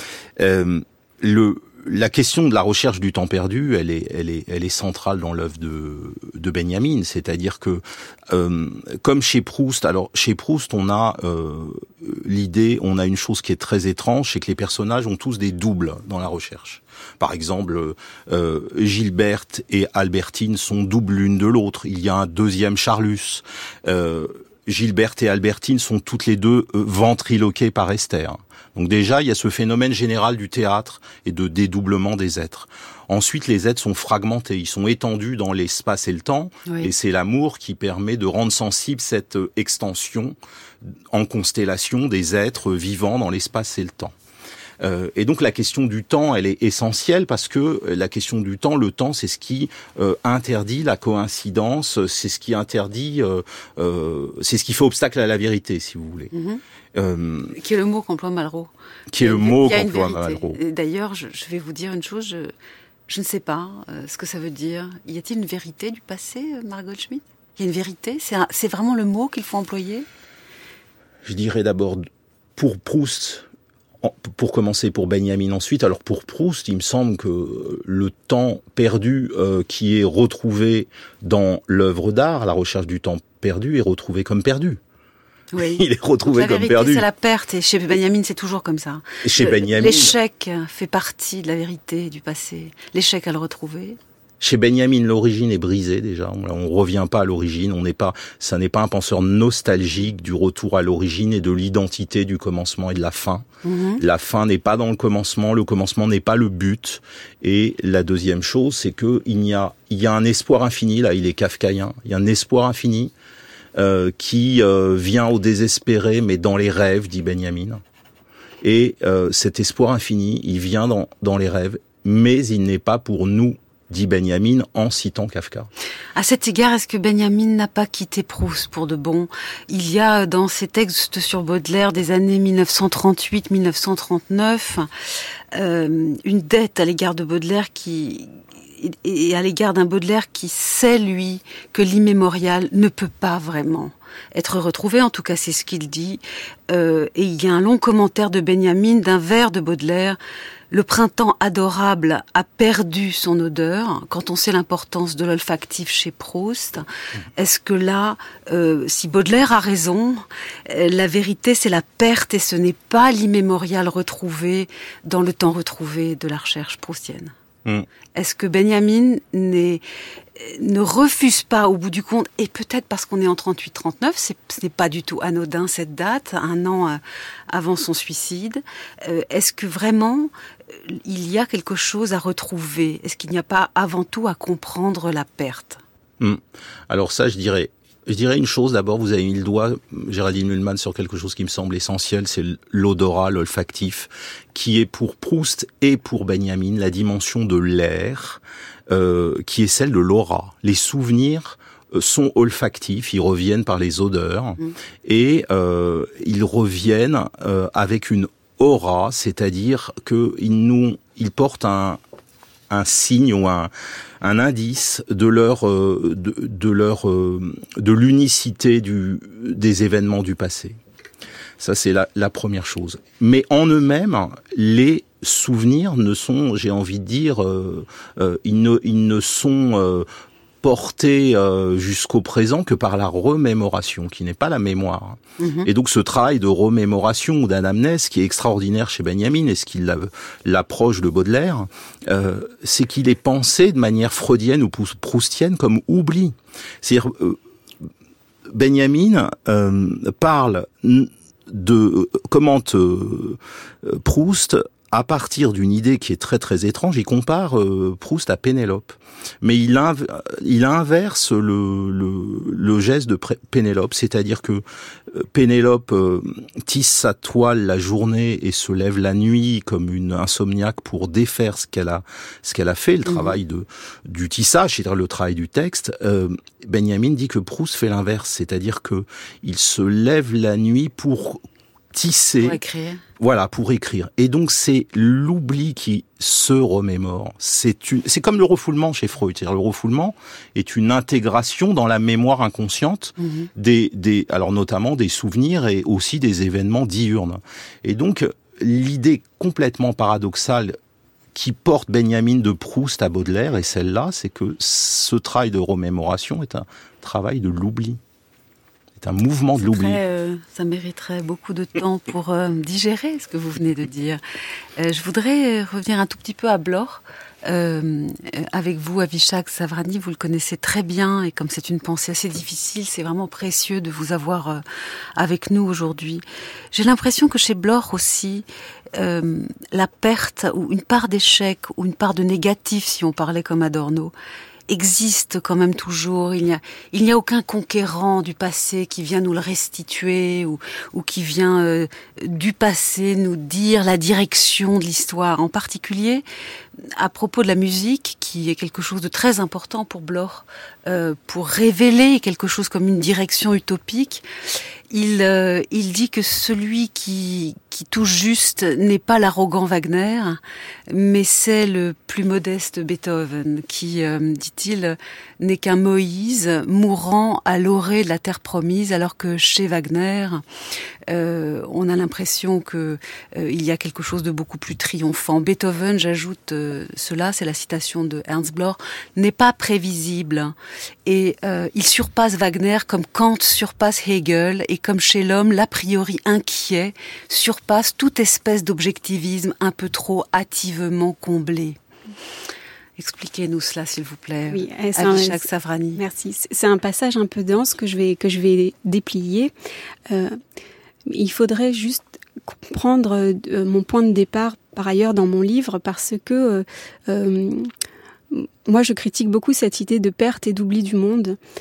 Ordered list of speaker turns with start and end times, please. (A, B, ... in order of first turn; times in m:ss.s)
0:00.4-0:40.4 A
0:36.7-0:36.9 B
0:41.1-0:44.1 A
0:44.8-0:56.3 A
0:56.3-0:56.6 B
0:56.9-0:57.6 A
0:57.6-1:02.5 B
0:59.1-1:00.6 A
1:03.1-1:10.1 B
1:11.2-1:13.5 A
1:14.0-1:24.8 A
1:25.5-1:34.0 B
1:25.6-1:27.0 A
1:29.2-1:30.2 A
1:34.4-1:43.5 A
1:43.6-1:44.0 B
1:44.0-1:53.1 A
1:53.8-1:57.8 A
1:58.6-2:05.7 A
2:06.2-2:14.9 B
2:15.5-2:30.2 B
2:30.7-2:36.8 B
2:37.4-2:47.3 B
2:48.2-2:49.8 B
2:50.4-3:00.3 B
3:00.8-3:05.8 B
3:06.2-3:32.0 A
3:32.7-3:40.8 A
3:41.6-3:50.1 A
3:50.6-4:07.4 A
3:55.4-3:55.7 B
4:08.5-4:42.6 A
4:33.0-4:33.4 B
4:42.4-4:43.0 B
4:43.2-5:00.8 A
4:53.2-4:53.5 B
5:01.4-5:08.0 A
5:09.0-5:10.0 A
5:09.6-5:14.2 B
5:14.8-5:24.6 B
5:25.2-5:34.1 B
5:34.7-5:46.2 B
5:47.0-5:54.2 B
5:54.9-6:10.4 B
6:11.1-6:20.6 B
6:21.1-6:31.8 B
6:33.0-6:36.0 B
6:34.5-6:39.5 C
6:40.1-6:40.4 C
6:41.1-6:47.7 C
6:48.3-6:51.4 C